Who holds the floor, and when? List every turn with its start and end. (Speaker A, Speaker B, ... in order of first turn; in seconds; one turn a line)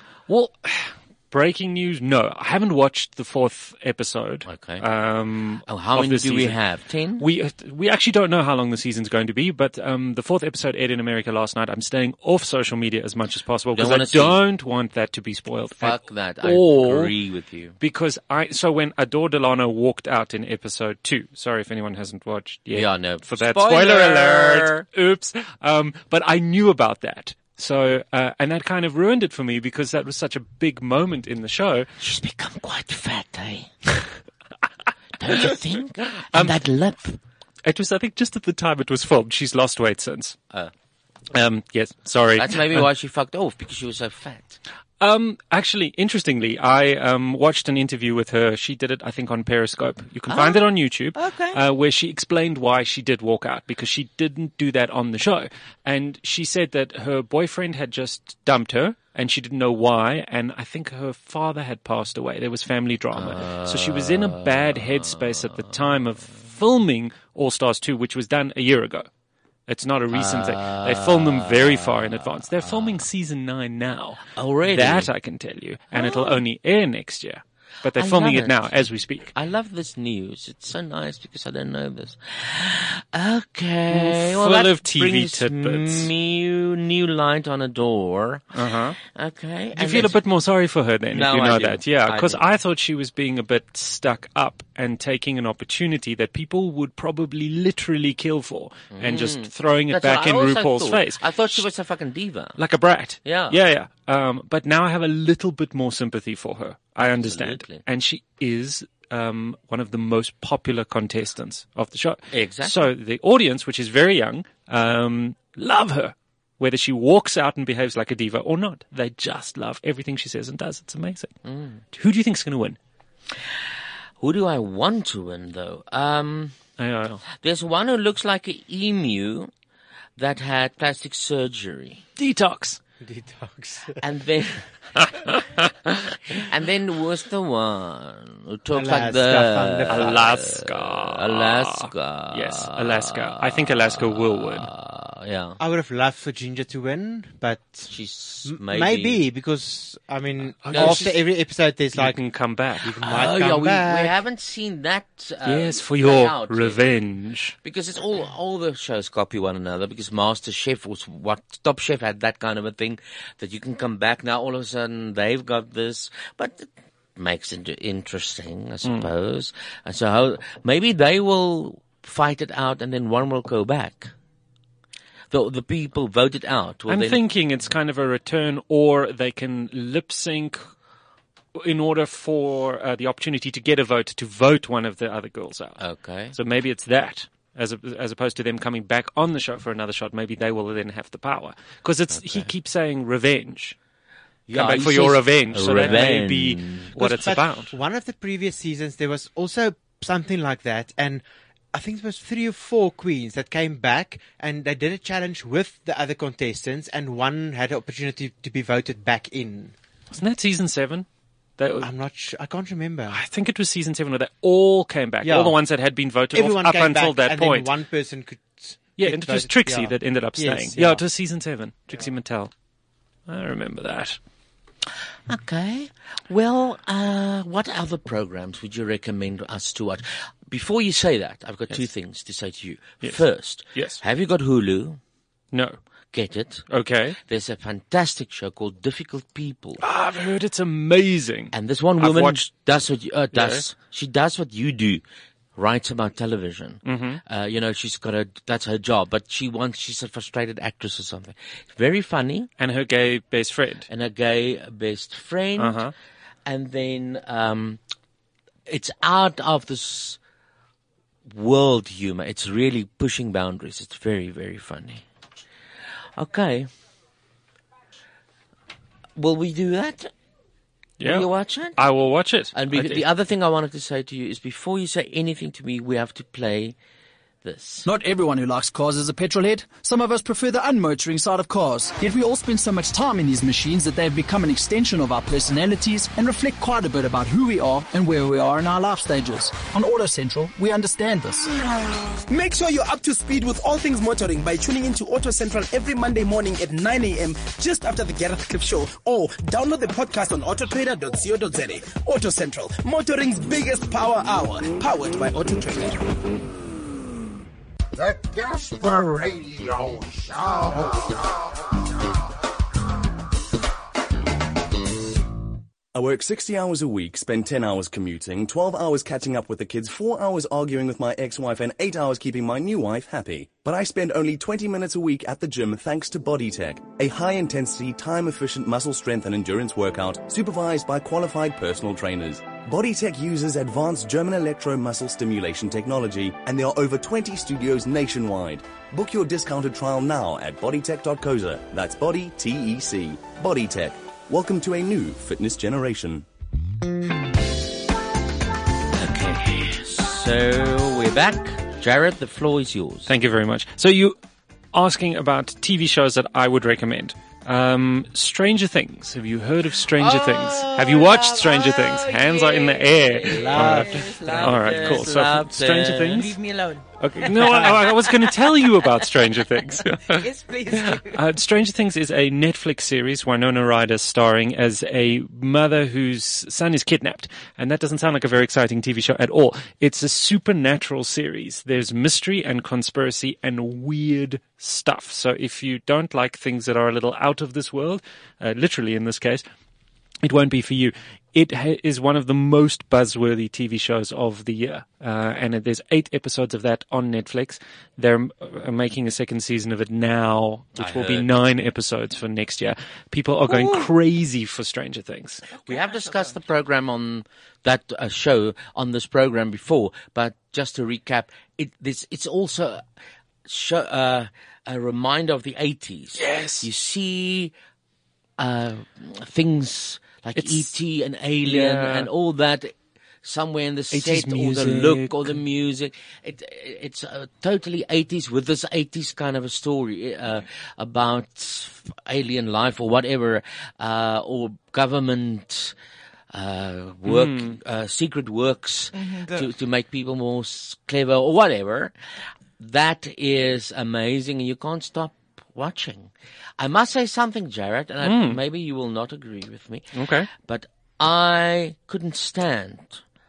Speaker A: 0.3-6.6
Speaker B: 4.5-4.9
Speaker B: 5.7-7.3
Speaker A: 7.2-17.1
Speaker B: 13.7-14.4
Speaker B: 15.8-17.8
Speaker A: 17.8-31.9
Speaker B: 22.7-24.9
Speaker B: 32.0-33.7
Speaker B: 35.2-37.2
Speaker A: 37.6-40.4
Speaker A: 41.3-42.9
Speaker B: 42.4-44.6
Speaker A: 45.0-69.1
Speaker B: 50.3-51.6
Speaker B: 63.1-65.8
Speaker A: 69.7-79.3
Speaker B: 70.1-73.1
Speaker B: 74.3-75.1
Speaker B: 75.9-76.4
Speaker B: 78.0-88.5
Speaker A: 83.9-86.1
Speaker A: 88.5-89.0
Speaker B: 89.0-90.2
Speaker A: 89.8-101.6
Speaker B: 91.1-92.4
Speaker B: 98.9-102.6
Speaker A: 102.6-121.3
Speaker B: 103.2-103.6
Speaker B: 107.0-107.8
Speaker B: 112.3-112.9
Speaker B: 121.5-121.8
Speaker A: 121.9-122.8
Speaker B: 124.2-126.6
Speaker A: 126.8-127.2
Speaker B: 127.3-129.5
Speaker B: 130.2-132.1
Speaker A: 132.2-132.8
Speaker C: 133.0-134.0
Speaker B: 134.0-134.7
Speaker B: 136.4-145.6
Speaker C: 138.7-140.3
Speaker A: 139.9-144.7
Speaker C: 145.6-147.9
Speaker B: 147.9-149.2
Speaker C: 148.4-152.2
Speaker A: 150.6-151.2
Speaker B: 150.7-151.1
Speaker A: 151.9-152.9
Speaker C: 152.8-154.1
Speaker B: 153.0-156.9
Speaker A: 155.4-157.6
Speaker B: 157.6-174.1
Speaker B: 175.3-177.2
Speaker A: 176.9-180.6
Speaker A: 181.6-185.8
Speaker B: 185.8-186.3
Speaker A: 186.3-193.8
Speaker B: 192.1-192.5
Speaker B: 194.5-196.9
Speaker A: 194.5-197.7
Speaker C: 197.0-209.8
Speaker A: 210.1-211.1
Speaker A: 211.6-211.9
Speaker C: 211.8-213.2
Speaker A: 213.1-217.7
Speaker C: 215.2-215.6
Speaker C: 216.3-221.0
Speaker A: 219.0-222.5
Speaker A: 223.3-224.2
Speaker B: 225.3-235.0
Speaker A: 233.7-234.0
Speaker A: 235.5-235.8
Speaker B: 236.1-236.7
Speaker A: 236.7-237.2
Speaker B: 237.3-239.8
Speaker A: 239.8-242.4
Speaker B: 241.5-245.0
Speaker A: 243.3-243.7
Speaker B: 245.6-252.5
Speaker A: 246.8-247.2
Speaker A: 252.6-253.9
Speaker B: 253.9-255.8
Speaker A: 255.6-255.9
Speaker B: 256.5-257.8
Speaker B: 258.7-260.2
Speaker B: 261.3-265.0
Speaker B: 266.2-266.7
Speaker B: 269.2-270.1
Speaker A: 271.0-273.0
Speaker B: 271.0-271.8
Speaker B: 272.5-276.8
Speaker B: 277.4-277.9
Speaker D: 277.9-291.5
Speaker E: 292.3-306.1
Speaker F: 315.9-346.3
Speaker B: 348.9-353.1
Speaker A: 353.1-354.2
Speaker A: 354.7-366.4
Speaker B: 360.0-366.3
Speaker G: 363.4-363.8
Speaker G: 366.1-368.2
Speaker A: 367.0-389.4
Speaker G: 370.1-371.2
Speaker A: 390.2-405.4
Speaker B: 400.8-401.4
Speaker B: 403.5-403.8
Speaker G: 405.6-406.4
Speaker B: 405.6-412.8
Speaker B: 413.5-417.5
Speaker A: 416.2-416.7
Speaker B: 418.4-435.8
Speaker A: 420.4-420.7
Speaker A: 421.4-422.1
Speaker A: 423.9-425.4
Speaker B: 436.3-441.9
Speaker A: 437.1-437.6
Speaker G: 438.9-439.5
Speaker B: 442.6-453.0
Speaker A: 448.0-448.4
Speaker A: 449.9-450.3